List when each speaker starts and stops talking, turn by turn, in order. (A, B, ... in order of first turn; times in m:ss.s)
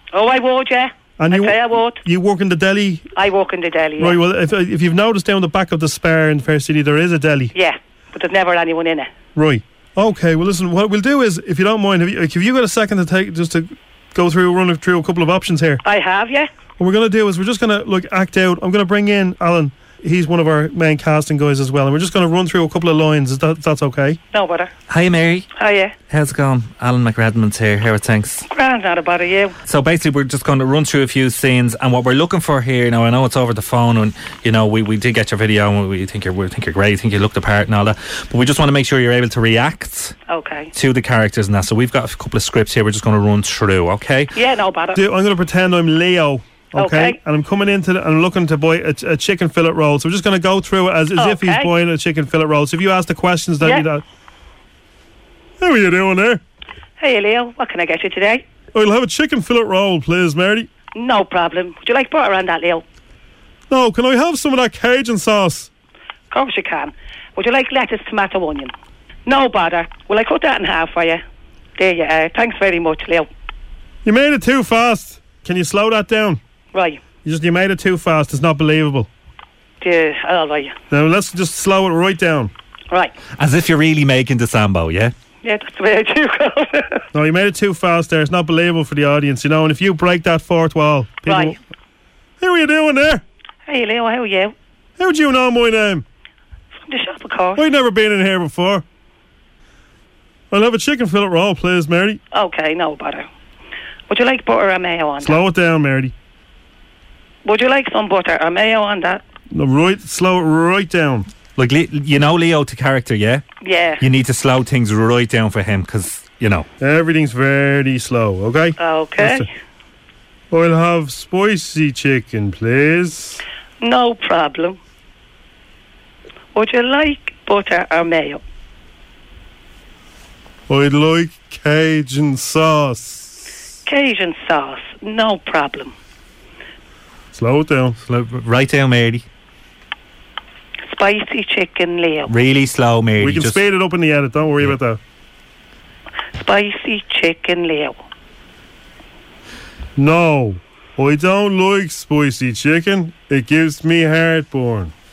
0:00.1-0:02.0 A
0:01.2-0:03.1 B
0:03.2-0:04.2 A
0:04.0-0:07.5 B
0:07.5-0:09.1 A
0:09.4-0:13.6 B
0:14.2-0:15.8 B
0:15.8-0:16.5 A
0:16.8-0:24.2 B
0:24.3-0:24.7 A
0:24.9-0:25.5 C
0:25.6-0:25.9 A
0:26.1-0:28.5 C
0:28.5-0:29.6 A
0:29.7-0:40.2 C
0:40.3-0:40.7 A
0:40.7-0:44.4 C
0:44.4-0:45.0 A
0:45.0-0:54.0 B
0:46.8-0:47.2 A
0:51.2-0:51.7 A
0:53.6-0:53.9 A
0:55.6-0:56.4 B
0:57.0-0:58.4 A
0:58.7-1:00.7 B
1:00.9-1:02.8 A
1:03.7-1:05.7 B
1:06.3-1:08.7 A
1:09.3-1:11.2 A
1:11.8-1:13.3 A
1:14.0-1:16.4 B
1:16.7-1:17.0 A
1:17.2-1:19.1 B
1:19.8-1:20.8 A
1:20.9-1:22.5 B
1:23.4-1:25.1 C
1:25.4-1:27.0 A
1:27.1-1:31.6 B
1:31.3-1:31.6 A
1:32.4-1:33.2 B
1:33.7-1:34.6 A
1:35.0-1:36.0 B
1:36.8-1:37.6 A
1:37.6-1:38.8 B
1:40.5-1:42.2 B
1:42.3-1:43.3 A
1:44.1-1:45.4 A
1:45.2-1:46.1 B
1:47.4-1:49.2 A
1:49.5-1:51.3 B
1:51.6-1:53.4 C
1:53.6-1:54.0 A
1:54.0-1:56.7 C
1:56.8-1:59.4 B
1:58.8-1:59.5 A
2:00.5-2:03.4 B
2:03.8-2:04.8 A
2:06.5-2:08.4 A
2:10.7-2:13.4 B
2:13.9-2:15.9 A
2:17.3-2:18.0 B
2:18.0-2:19.2 C
2:20.9-2:22.3 A
2:22.3-2:23.6 C
2:23.2-2:25.0 B
2:26.4-2:28.0 A
2:30.0-2:34.9 B